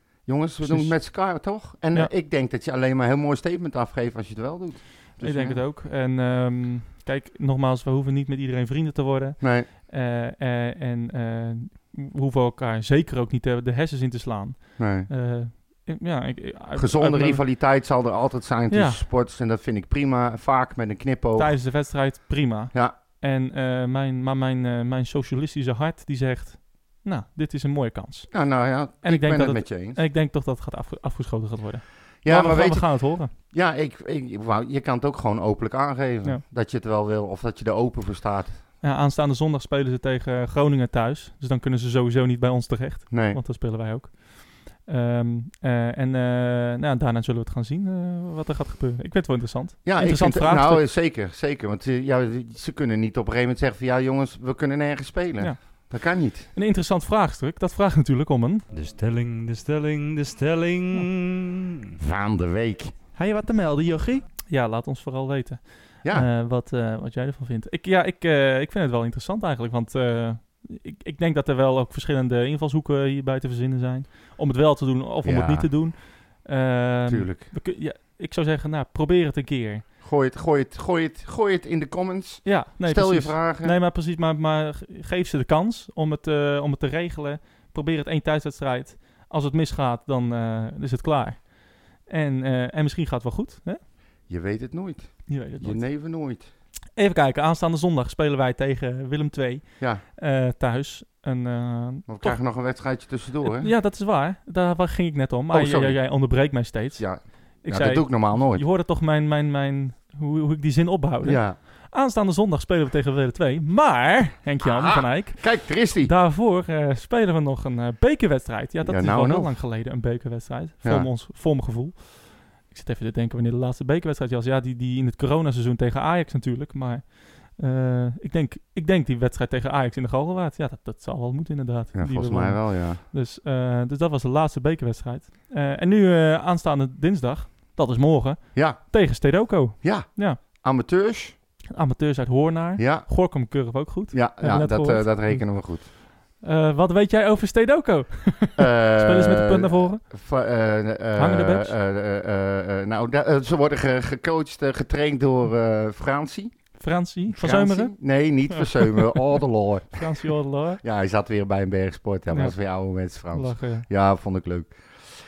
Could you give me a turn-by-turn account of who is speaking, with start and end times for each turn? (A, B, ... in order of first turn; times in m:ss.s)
0:00.2-0:05.6 A
0:00.6-0:02.1 B
0:05.2-0:17.4 B
0:09.4-0:09.7 A
0:14.8-0:15.1 A
0:16.8-0:21.7 A
0:18.7-0:19.0 B
0:21.4-0:33.3 B
0:28.3-0:30.0 A
0:32.2-0:38.6 A
0:38.8-0:50.9 B
0:43.1-0:43.4 A
0:49.8-0:56.5 A
0:55.4-0:56.0 B
0:56.5-0:58.7 B
0:58.7-1:02.0 C
1:02.0-1:02.9 A
1:03.2-1:19.9 B
1:06.0-1:06.3 A
1:15.2-1:15.7 A
1:17.1-1:17.5 A
1:20.0-1:23.8 A
1:22.4-1:33.8 B
1:34.3-1:36.5 A
1:35.3-1:36.0 B
1:37.0-1:42.4 B
1:42.1-1:43.7 A
1:43.4-2:20.4 B
1:45.5-1:48.6 A
1:51.2-1:51.6 A
1:54.6-1:56.1 A
1:58.8-1:59.5 A
2:00.8-2:01.1 A
2:11.9-2:13.0 A
2:18.5-2:21.4 A
2:21.7-2:30.0 B
2:22.8-2:25.9 A
2:28.6-2:36.7 A
2:31.2-2:31.7 B
2:36.8-2:38.0 B
2:37.3-2:40.1 A
2:38.5-2:39.4 B
2:39.9-2:40.8 B
2:40.8-2:44.7 A
2:43.3-2:43.9 B